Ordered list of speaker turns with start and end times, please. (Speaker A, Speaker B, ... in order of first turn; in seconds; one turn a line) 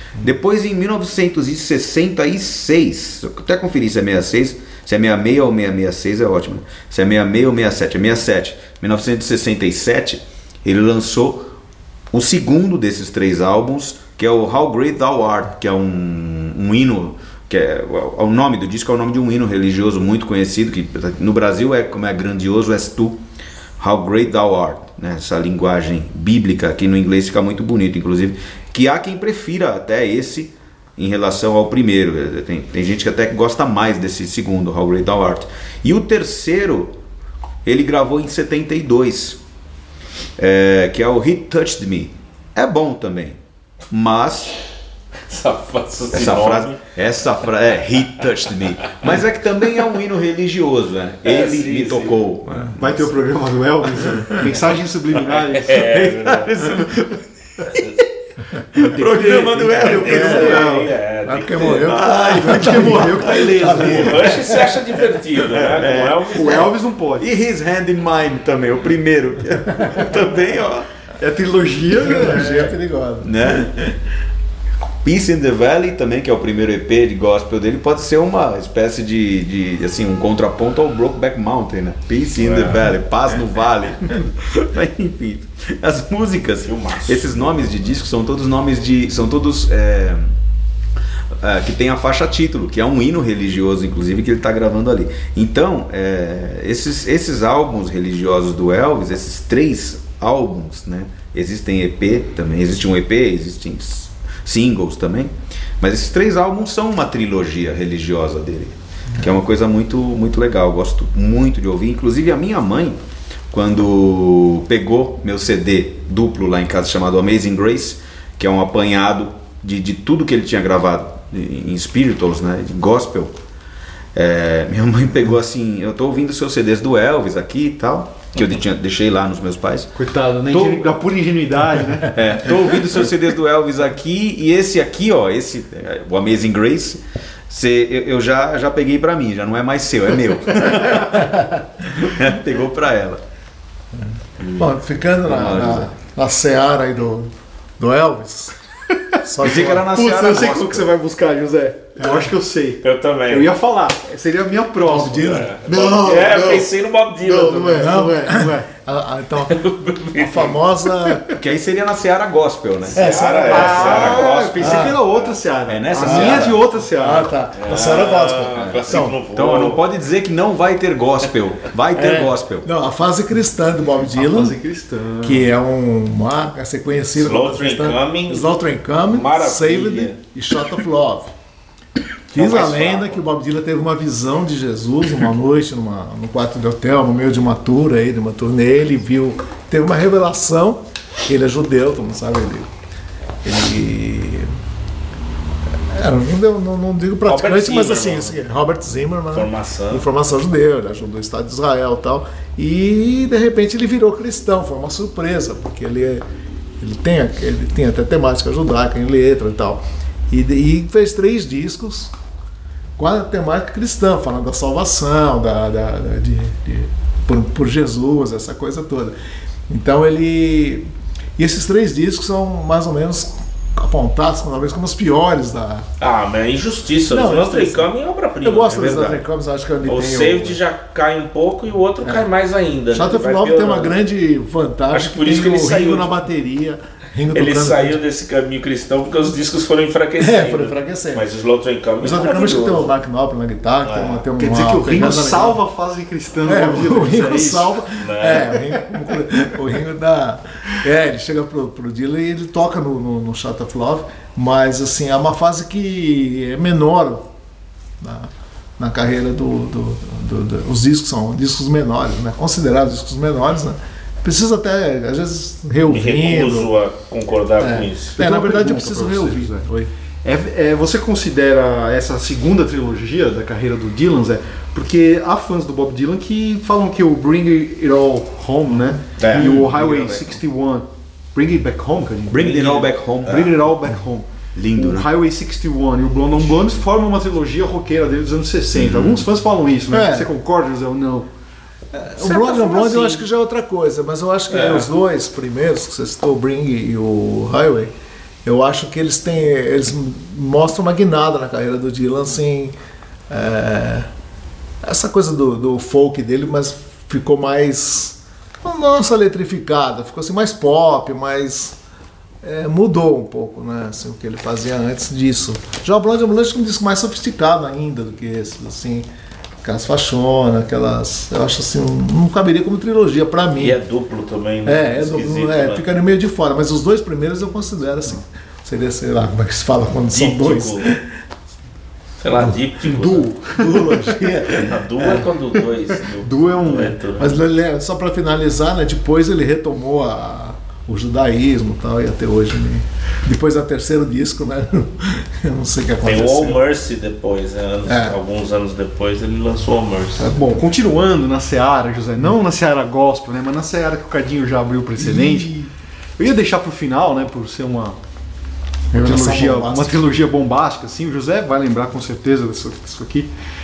Speaker A: 0.2-11.5
Speaker A: 12.1-23.2
Speaker A: 23.8-36.9
Speaker A: 37.6-39.4
Speaker A: 40.4-43.4
Speaker A: 43.9-44.6
Speaker B: 45.3-46.8
Speaker A: 46.1-53.0
Speaker B: 51.2-52.2
Speaker C: 52.8-55.9
Speaker B: 55.3-56.7
Speaker A: 55.7-58.0
Speaker A: 58.7-60.8
Speaker C: 58.9-60.9
Speaker B: 59.8-62.3
Speaker D: 59.8-65.2
Speaker A: 61.8-63.5
Speaker C: 62.3-64.3
Speaker B: 63.6-66.7
Speaker A: 65.5-70.9
Speaker C: 66.3-67.3
Speaker C: 71.2-72.7
Speaker D: 71.9-73.9
Speaker A: 73.2-73.9
Speaker A: 75.0-90.3
Speaker B: 82.4-82.8
Speaker B: 86.7-87.5
Speaker A: 91.4-113.0
Speaker A: 113.5-123.4
Speaker A: 124.2-129.9
Speaker C: 129.9-132.2
Speaker A: 130.5-130.9
Speaker A: 132.1-143.2
Speaker D: 141.2-141.6
Speaker A: 144.4-145.9
Speaker D: 144.6-148.5
Speaker D: 149.2-149.9
Speaker A: 149.4-150.9
Speaker C: 149.6-156.7
Speaker B: 152.8-153.5
Speaker D: 154.8-156.2
Speaker B: 155.2-158.0
Speaker C: 157.2-158.7
Speaker D: 157.8-159.6
Speaker B: 159.5-160.6
Speaker D: 160.1-161.3
Speaker A: 161.3-164.3
Speaker D: 162.9-165.0
Speaker B: 162.9-165.3
Speaker C: 163.5-167.3
Speaker A: 165.7-166.6
Speaker B: 166.0-166.5
Speaker D: 166.8-169.2
Speaker B: 167.6-169.8
Speaker A: 169.3-172.7
Speaker D: 171.9-174.6
Speaker C: 174.1-175.5
Speaker D: 175.2-181.3
Speaker B: 177.2-180.2
Speaker D: 182.3-192.7
Speaker B: 182.3-183.2
Speaker D: 193.4-194.5
Speaker D: 195.9-206.2
Speaker B: 197.3-198.4
Speaker B: 199.3-200.1
Speaker D: 206.8-212.1
Speaker D: 213.0-219.2
Speaker D: 219.7-220.9
Speaker D: 221.4-225.8
Speaker B: 226.0-229.2
Speaker D: 227.1-227.9
Speaker D: 228.4-230.6
Speaker B: 229.8-233.9
Speaker D: 232.9-238.0
Speaker B: 234.9-236.1
Speaker B: 237.3-242.9
Speaker D: 240.2-241.3
Speaker D: 242.0-245.6
Speaker B: 243.8-244.2
Speaker C: 244.4-247.8
Speaker D: 246.4-257.3
Speaker B: 247.9-248.8
Speaker D: 258.0-266.7
Speaker B: 265.9-268.2
Speaker D: 267.6-269.9
Speaker C: 268.2-269.7
Speaker C: 270.2-282.6
Speaker A: 279.2-280.4
Speaker A: 282.3-283.6
Speaker B: 282.4-283.4
Speaker C: 283.2-291.3
Speaker A: 284.6-285.1
Speaker A: 288.7-289.2
Speaker D: 289.9-290.3
Speaker D: 291.9-297.9
Speaker B: 292.2-293.2
Speaker B: 294.5-294.9
Speaker D: 298.4-302.8
Speaker D: 303.3-304.1
Speaker D: 304.8-311.8
Speaker D: 312.4-319.1
Speaker D: 319.6-323.8
Speaker B: 323.6-325.8
Speaker D: 324.6-331.0
Speaker B: 330.1-330.9
Speaker B: 332.2-333.3
Speaker C: 332.8-334.1
Speaker D: 333.6-335.3
Speaker B: 334.5-337.4
Speaker C: 336.2-337.0
Speaker D: 337.2-346.6
Speaker B: 346.0-350.3
Speaker D: 347.9-348.2
Speaker D: 350.2-350.6
Speaker C: 350.4-355.5
Speaker D: 355.0-355.7
Speaker C: 356.2-358.0
Speaker D: 358.9-360.0
Speaker C: 359.0-363.3